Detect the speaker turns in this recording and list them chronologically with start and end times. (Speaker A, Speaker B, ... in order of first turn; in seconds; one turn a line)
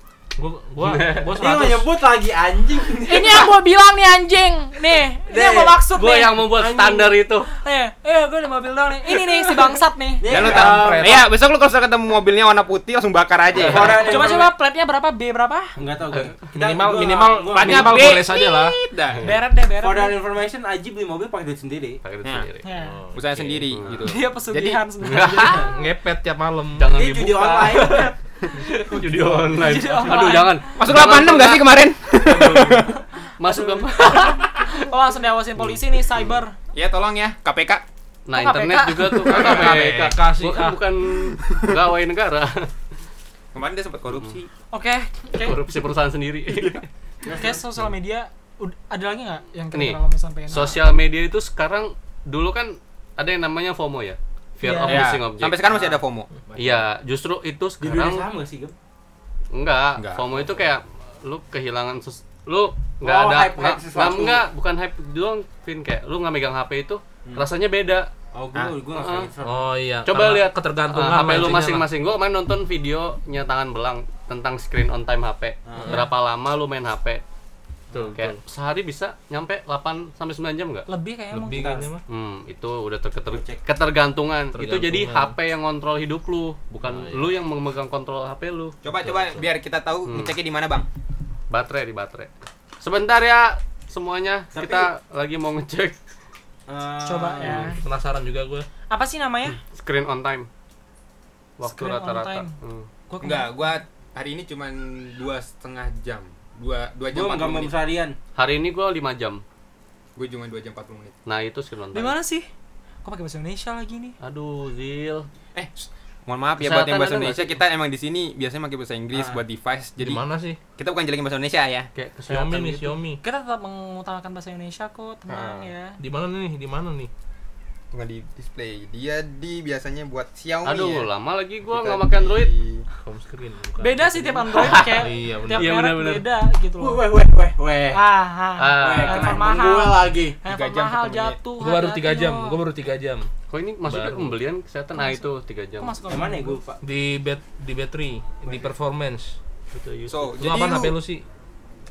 Speaker A: 0.4-1.9
Speaker B: 0.8-1.4
Speaker C: 1.4-3.4
Speaker D: 2.9-6.8
Speaker C: 5.3-5.8
Speaker B: 6.0-7.5
Speaker D: 7.5-10.3
Speaker C: 10.2-11.2
Speaker A: 10.3-11.3
Speaker E: 10.3-14.4
Speaker A: 13.6-14.1
Speaker C: 13.6-14.5
Speaker D: 13.9-15.8
Speaker C: 15.8-18.2
Speaker A: 16.5-18.8
Speaker E: 17.5-19.3
Speaker D: 19.2-20.2
Speaker C: 19.8-22.0
Speaker B: 22.0-22.7
Speaker D: 22.6-23.0
Speaker A: 22.8-24.0
Speaker E: 23.1-24.9
Speaker B: 23.7-24.1
Speaker D: 24.0-25.8
Speaker B: 25.0-25.7
Speaker A: 25.6-26.9
Speaker B: 26.8-31.7
Speaker C: 26.9-28.1
Speaker D: 29.5-30.8
Speaker E: 30.8-33.0
Speaker B: 32.3-32.8
Speaker D: 32.9-36.5
Speaker B: 33.4-34.7
Speaker E: 36.7-37.8
Speaker B: 38.3-42.7
Speaker D: 38.3-39.7
Speaker A: 39.2-40.8
Speaker E: 41.2-41.7
Speaker E: 43.5-44.5
Speaker D: 44.7-45.6
Speaker B: 45.4-46.9
Speaker C: 47.2-47.6
Speaker D: 47.3-50.8
Speaker B: 49.7-50.0
Speaker B: 50.5-55.6
Speaker D: 54.6-55.0
Speaker E: 54.9-56.3
Speaker C: 55.7-56.8
Speaker B: 56.6-58.3
Speaker C: 57.8-58.7
Speaker B: 59.5-68.1
Speaker E: 60.0-60.6
Speaker C: 63.0-64.5
Speaker C: 68.3-69.7
Speaker B: 68.9-69.3
Speaker A: 69.4-71.9
Speaker B: 70.0-77.2
Speaker C: 75.7-76.0
Speaker A: 77.9-78.4
Speaker B: 78.0-80.9
Speaker D: 80.9-81.9
Speaker A: 81.3-82.0
Speaker C: 81.6-81.9
Speaker B: 82.1-88.8
Speaker C: 83.3-83.6
Speaker A: 84.5-85.3
Speaker A: 86.8-87.3
Speaker E: 88.8-90.9
Speaker A: 89.0-89.5
Speaker B: 90.1-90.4
Speaker B: 91.5-92.3
Speaker B: 92.8-96.0
Speaker C: 94.5-94.9
Speaker C: 96.7-97.7
Speaker D: 97.0-97.8
Speaker A: 97.4-98.7
Speaker D: 98.9-99.6
Speaker B: 99.6-100.5
Speaker B: 101.6-102.9
Speaker D: 101.6-102.5
Speaker D: 103.1-103.5
Speaker E: 103.2-107.7
Speaker C: 107.1-108.2
Speaker B: 108.3-109.4
Speaker E: 110.2-111.2
Speaker B: 111.3-112.2
Speaker D: 111.9-112.5
Speaker D: 113.0-114.2
Speaker B: 114.2-115.3
Speaker E: 115.5-120.3
Speaker B: 116.6-117.6
Speaker C: 119.1-119.4
Speaker A: 120.0-120.6
Speaker E: 120.8-121.9
Speaker B: 122.0-123.0
Speaker A: 122.3-123.2
Speaker D: 123.2-126.0
Speaker E: 125.3-125.7
Speaker A: 126.0-127.1
Speaker E: 127.9-131.1
Speaker B: 130.6-132.5
Speaker E: 131.7-132.9
Speaker A: 133.0-135.8
Speaker D: 133.8-137.0
Speaker B: 134.6-136.3
Speaker C: 136.8-138.0
Speaker D: 137.9-142.6
Speaker B: 138.6-139.5
Speaker C: 138.7-140.4
Speaker E: 140.4-141.4
Speaker A: 141.6-143.3
Speaker B: 143.5-146.0
Speaker A: 143.8-144.4
Speaker D: 144.9-146.6
Speaker C: 146.1-146.8
Speaker A: 146.8-149.4
Speaker B: 149.7-150.6
Speaker E: 150.1-151.0
Speaker A: 150.4-151.2